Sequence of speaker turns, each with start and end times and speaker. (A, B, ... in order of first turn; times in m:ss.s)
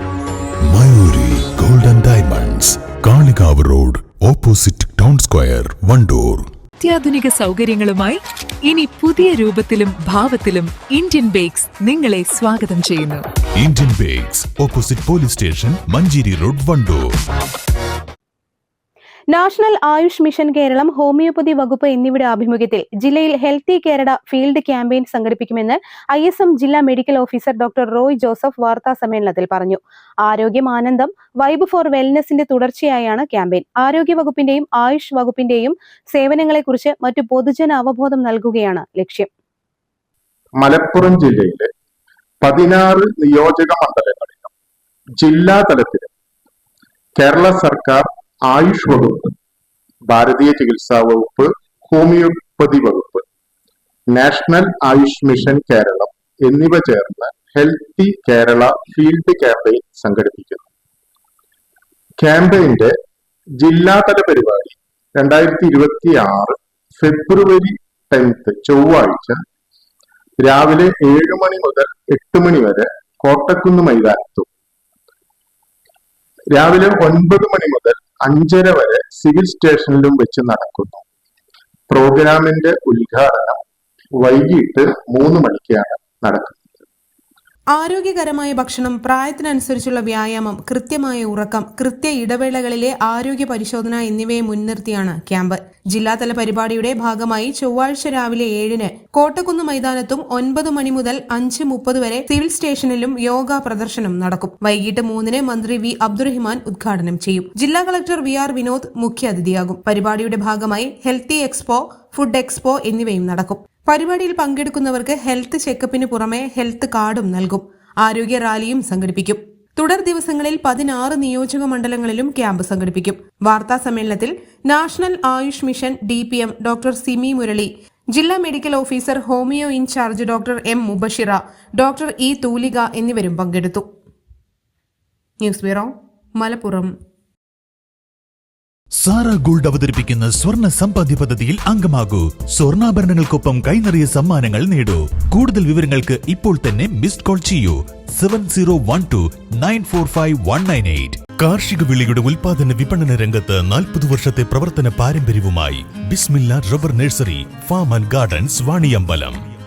0:00.6-0:06.4 A
0:06.8-0:13.2 B
0:13.6-0:17.0 A
0:19.3-0:39.3 C
0:40.6-0:41.7 D
0:42.4-0:44.5 D
0:45.2-0:46.1 D
0:47.2-0:49.3 D
0:50.1-0:53.2 D
0:54.1-1:00.7 D
1:02.2-1:02.9 D
1:03.6-1:09.4 D
1:10.4-1:14.5 D
1:16.5-1:21.0 D
1:21.9-1:23.6 D
1:24.2-1:26.8 D
1:27.7-2:13.8 E
2:15.4-2:16.9 E
2:19.0-2:39.4 A